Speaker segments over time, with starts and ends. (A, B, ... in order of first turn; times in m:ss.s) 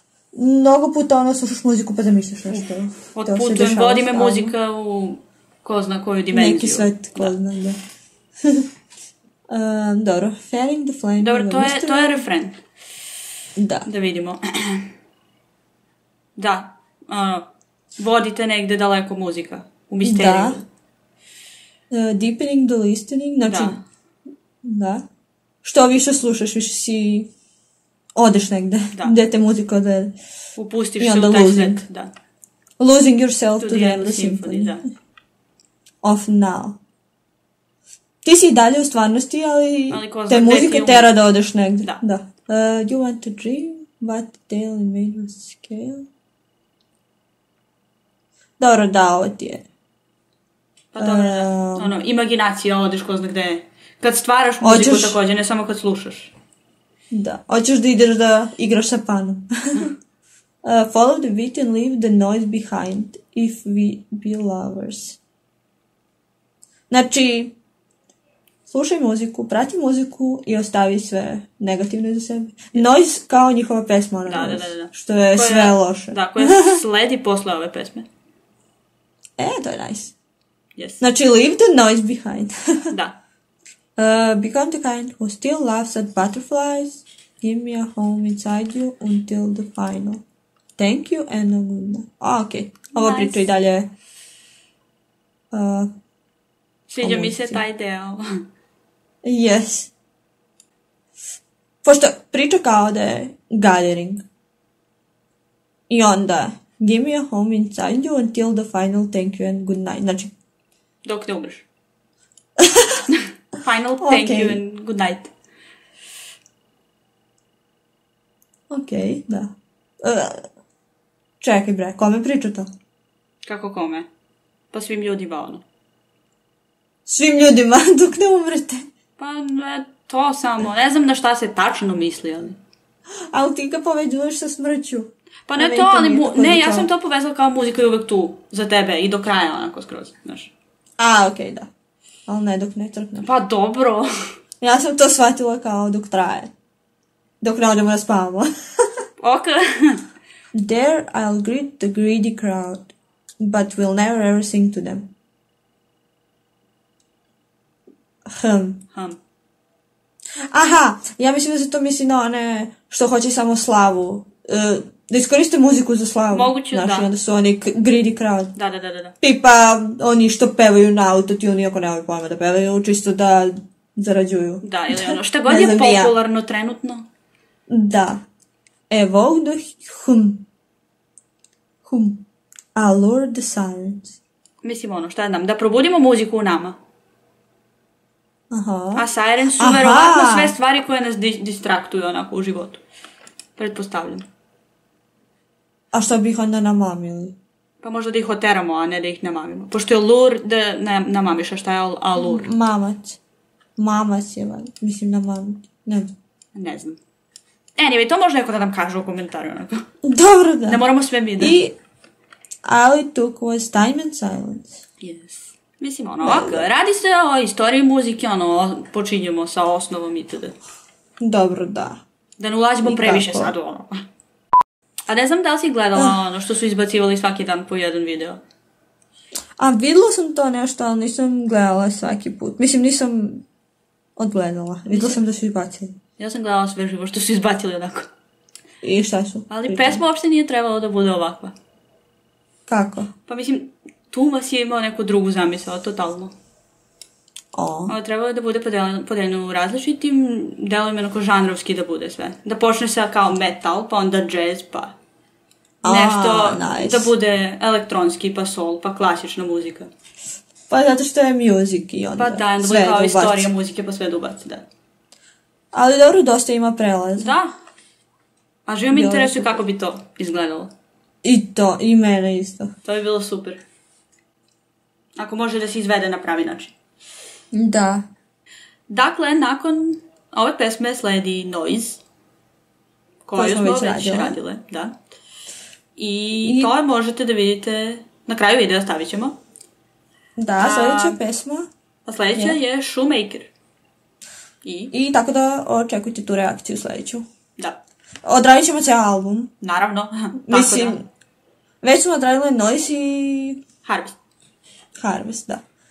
0:00.3-0:04.5 A
0:02.5-0:07.3 B
0:06.3-0:07.8 A
0:09.5-0:12.2 A
0:11.2-0:12.6 B
0:13.6-0:13.9 A
0:13.8-0:14.9 B
0:16.4-0:20.6 B
0:20.0-0:20.6 A
0:21.9-0:23.8 A
0:23.4-0:23.8 B
0:24.6-0:25.0 A
0:25.6-0:27.3 A
0:28.2-0:30.1 A
0:30.6-0:32.1 B
0:31.0-0:31.8 A
0:32.8-0:34.8 A
0:33.6-0:34.8 B
0:36.0-0:36.8 A
0:38.2-0:46.0 A
0:39.9-0:41.1 B
0:48.6-0:49.6 A
0:50.9-0:56.3 B
0:51.0-0:52.0 A
0:54.6-0:55.2 A
0:57.1-0:59.9 A
1:00.6-1:05.2 A
1:06.9-1:07.5 A
1:08.7-1:16.8 A
1:14.2-1:18.0 B
1:19.4-1:20.1 A
1:20.8-1:21.0 B
1:21.0-1:22.5 A
1:22.9-1:23.2 B
1:24.0-1:30.2 A
1:30.8-1:33.9 A
1:32.9-1:33.5 B
1:35.5-1:35.9 A
1:36.9-1:38.2 B
1:37.0-1:37.6 A
1:39.2-1:39.9 A
1:41.8-1:44.2 A
1:45.9-1:50.3 A
1:51.0-1:51.7 B
1:52.6-1:53.0 A
1:53.1-1:55.3 B
1:54.0-1:54.6 A
1:58.7-2:00.4 A
2:01.4-2:02.7 A
2:03.4-2:04.1 B
2:04.7-2:05.6 B
2:07.0-2:08.8 A
2:09.2-2:12.6 B
2:13.3-2:16.9 A
2:15.5-2:20.5 B
2:21.0-2:21.7 A
2:22.3-2:23.3 A
2:23.2-2:24.1 B
2:24.6-2:26.5 A
2:27.4-2:28.5 A
2:29.2-2:30.0 B
2:30.5-2:35.1 A
2:38.3-2:38.8 A
2:38.9-2:39.2 B
2:40.5-2:48.5 A
2:46.3-2:47.1 B
2:48.6-2:49.1 B
2:49.2-2:56.1 A
2:54.6-2:57.0 B
2:57.7-2:58.2 A
2:58.9-3:00.4 A
3:01.8-3:02.2 A
3:02.7-3:04.2 A
3:04.6-3:06.8 B
3:08.5-3:09.1 A
3:09.0-3:12.8 B
3:09.6-3:10.5 A
3:13.6-3:14.2 B
3:15.9-3:17.3 A
3:17.8-3:22.5 B
3:22.2-3:23.2 A
3:23.8-3:26.1 A
3:26.5-3:27.0 B
3:27.8-3:29.8 B
3:30.0-3:30.8 A
3:30.7-3:31.6 B
3:31.4-3:31.7 A
3:32.6-3:34.8 A
3:35.0-3:40.6 B
3:36.2-3:36.7 A
3:41.2-3:42.0 A
3:42.4-3:43.9 B
3:42.8-3:43.5 A
3:45.1-3:48.4 B
3:49.6-3:53.4 A
3:54.2-3:55.9 A
3:54.9-3:55.2 B
3:56.2-3:58.1 B
3:58.8-4:00.0 A
3:59.5-4:01.5 B
4:02.7-4:03.1 A
4:03.3-4:06.3 B
4:07.5-4:07.9 A
4:07.9-4:14.9 B
4:15.8-4:17.1 A
4:15.8-4:19.9 B
4:20.7-4:23.5 A
4:22.2-4:24.6 B
4:25.7-4:27.3 A
4:27.2-4:27.5 B
4:28.6-4:30.7 B
4:28.9-4:29.6 A
4:31.2-4:32.7 A
4:32.8-4:33.6 B
4:35.2-4:36.7 B
4:37.5-4:38.0 A
4:38.9-4:42.0 B
4:43.2-4:45.0 B
4:43.3-4:44.4 A
4:46.0-4:49.4 B
4:46.4-4:46.7 A
4:50.4-4:51.7 A
4:50.6-4:51.2 B
4:52.0-4:53.5 B
4:54.6-4:54.9 B
4:54.9-4:57.2 A
4:58.2-4:59.5 A
4:59.6-5:01.0 B
5:00.5-5:01.0 A
5:01.8-5:03.6 A
5:03.8-5:04.1 B
5:05.0-5:05.6 A